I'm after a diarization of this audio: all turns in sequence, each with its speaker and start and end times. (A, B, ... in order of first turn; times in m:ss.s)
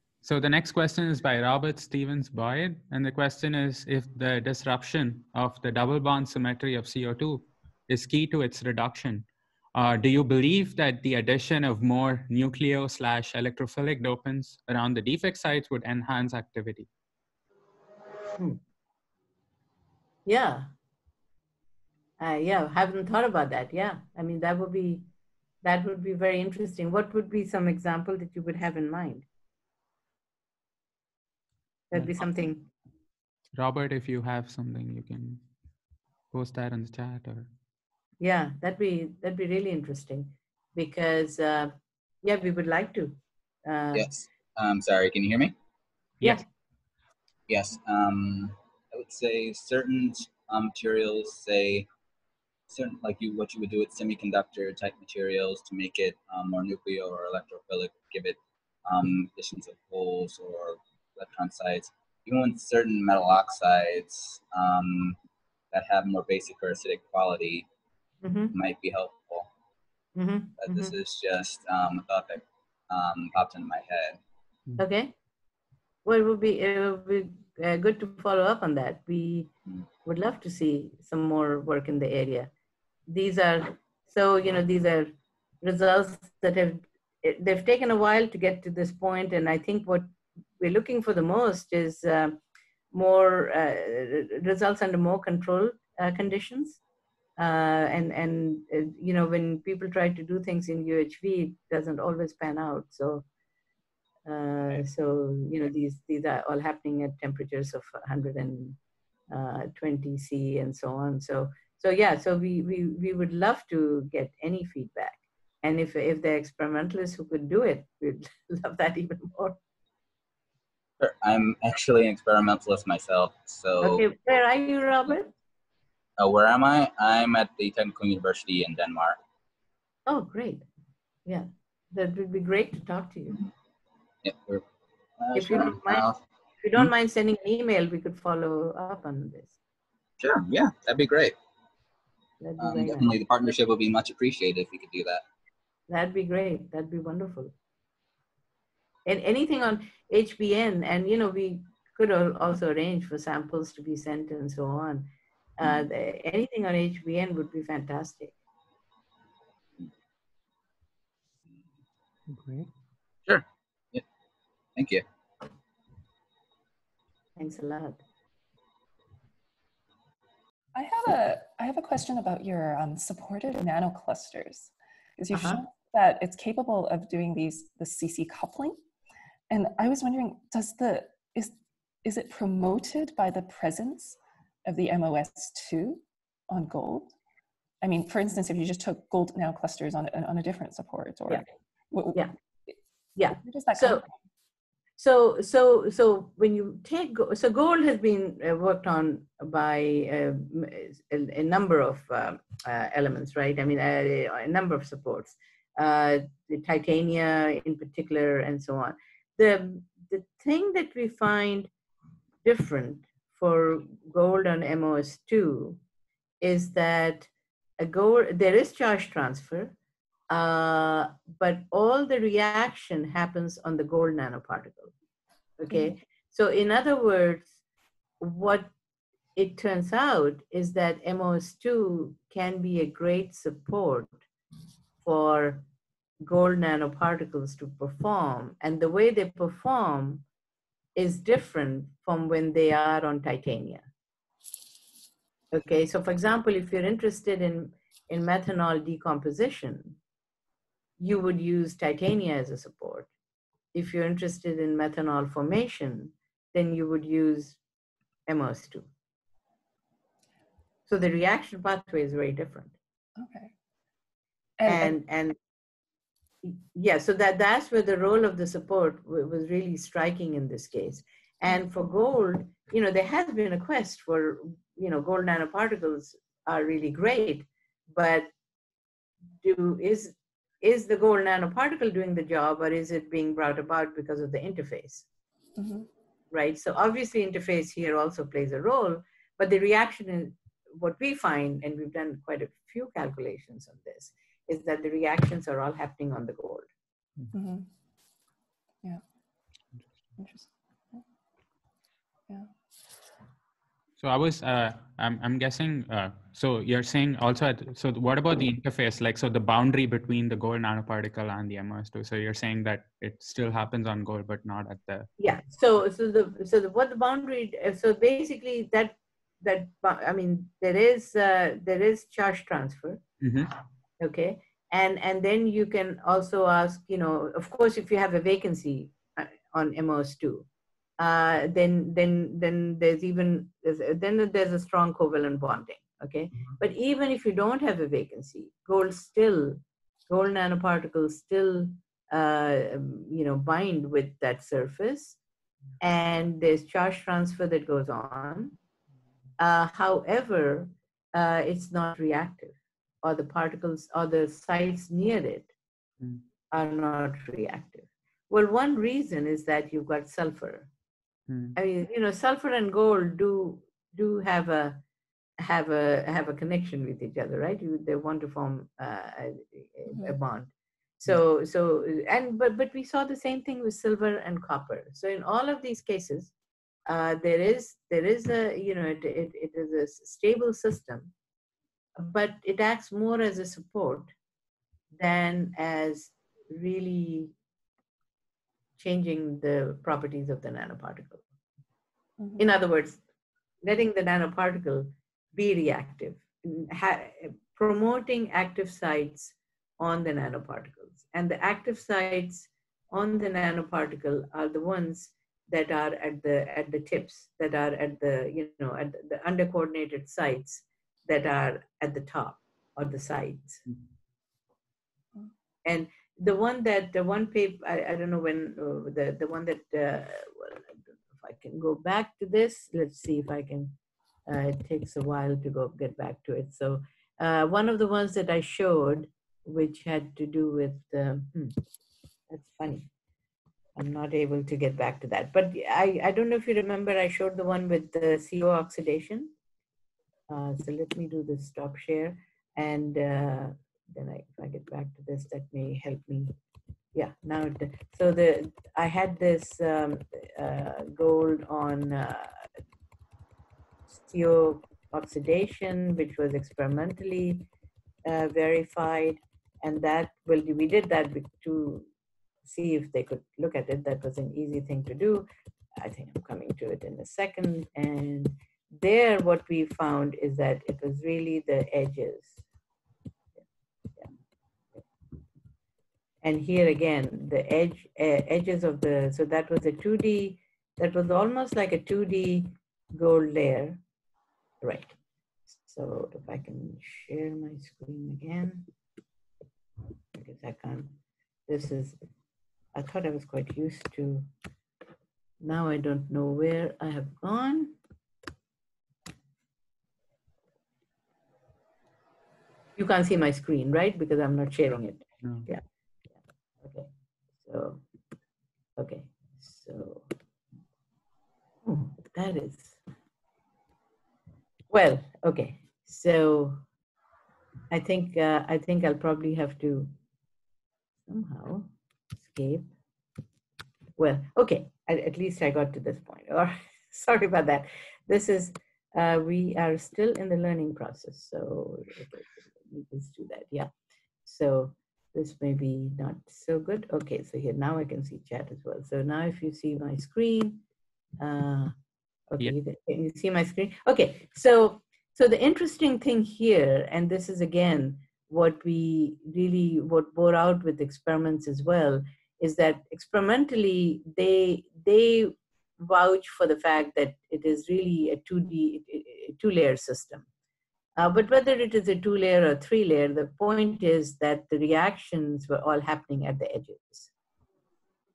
0:00.2-0:16.9 A
0:20.2-0:20.7 B
0:22.2-0:25.1 B
0:25.6-0:29.3 B
0:31.9-0:32.7 B
0:33.5-0:35.4 A
0:36.3-0:37.5 A
0:38.2-0:44.1 B
0:43.9-0:45.5 C
0:47.5-0:51.8 C
0:52.7-1:05.2 C
1:05.7-1:07.7 C
1:08.2-1:08.5 B
1:08.5-1:09.5 C
1:10.2-1:10.9 B
1:10.6-1:14.2 C
1:14.8-1:15.1 B
1:16.0-1:19.5 B
1:20.0-1:22.5 B
1:23.1-1:32.4 B
1:32.9-1:36.8 B
1:37.4-1:43.2 B
1:44.2-1:48.8 B
1:49.3-1:59.6 B
2:01.0-2:04.0 C
2:03.8-2:05.3 B
2:06.2-2:09.2 C
2:10.0-2:10.6 B
2:11.2-2:13.4 B
2:14.2-2:14.6 C
2:15.2-2:16.2 C
2:15.3-2:16.1 B
2:16.6-2:19.6 B
2:20.2-2:21.3 C
2:22.4-2:23.1 B
2:22.6-2:25.2 C
2:25.9-2:27.5 B
2:29.0-2:38.3 B
2:42.4-2:42.7 A
2:43.3-2:44.0 C
2:44.8-2:45.0 C
2:47.4-2:48.0 B
2:50.7-2:58.8 D
2:55.3-2:55.6 B
2:59.5-3:07.1 D
3:07.8-3:12.7 D
3:13.2-3:14.0 B
3:13.4-3:14.1 D
3:15.0-3:31.7 B
3:32.4-3:35.8 B
3:36.4-3:39.8 B
3:40.3-3:44.9 B
3:45.6-3:47.6 B
3:48.2-3:48.7 B
3:49.4-3:54.2 B
3:55.0-3:55.6 B
3:56.2-4:00.2 B
4:00.9-4:03.9 B
4:05.5-4:10.0 B
4:11.0-4:13.1 B
4:13.7-4:17.6 B
4:18.3-4:18.9 B
4:20.9-4:22.8 B
4:23.2-4:23.5 D
4:24.6-4:24.9 D
4:24.6-4:25.4 B
4:26.4-4:38.3 B
4:39.4-4:45.0 B
4:45.6-4:45.9 D
4:46.3-4:56.7 B
4:57.3-4:57.7 D
5:00.2-5:01.0 D
5:04.0-5:15.1 A
5:15.2-5:23.0 B
5:23.2-5:23.5 A
5:24.0-5:30.5 B
5:31.0-5:45.2 B
5:45.8-5:48.6 B
5:49.4-5:55.5 B
5:56.5-6:00.7 B
6:01.3-6:01.6 A
6:01.6-6:04.8 B
6:05.4-6:16.3 B
6:16.8-6:21.1 B
6:22.0-6:24.1 B
6:24.9-6:27.3 B
6:28.8-6:31.2 B
6:32.2-6:32.4 D
6:32.4-6:33.0 B
6:33.6-6:53.6 B
6:55.6-7:03.7 B
7:04.3-7:11.6 B
7:12.3-7:12.9 B
7:13.8-7:19.3 B
7:20.3-7:26.4 B
7:26.9-7:32.5 B
7:33.9-7:37.5 B
7:38.0-7:41.9 B
7:42.4-7:52.4 B
7:56.2-8:03.8 B
8:04.6-8:04.9 B
8:05.5-8:08.7 B
8:10.1-8:10.9 B
8:11.5-8:12.0 B
8:12.7-8:14.3 B
8:15.4-8:17.8 B
8:22.8-8:25.6 B
8:26.6-8:26.9 B
8:27.4-8:27.8 B
8:28.8-8:30.1 B
8:31.6-8:32.8 B
8:34.7-8:36.6 B
8:37.7-8:39.9 B
8:41.1-8:41.7 B
8:42.2-8:42.7 B
8:44.0-8:53.7 B
8:54.2-9:00.6 B
9:01.2-9:01.7 B
9:02.3-9:20.3 B
9:21.0-9:27.1 B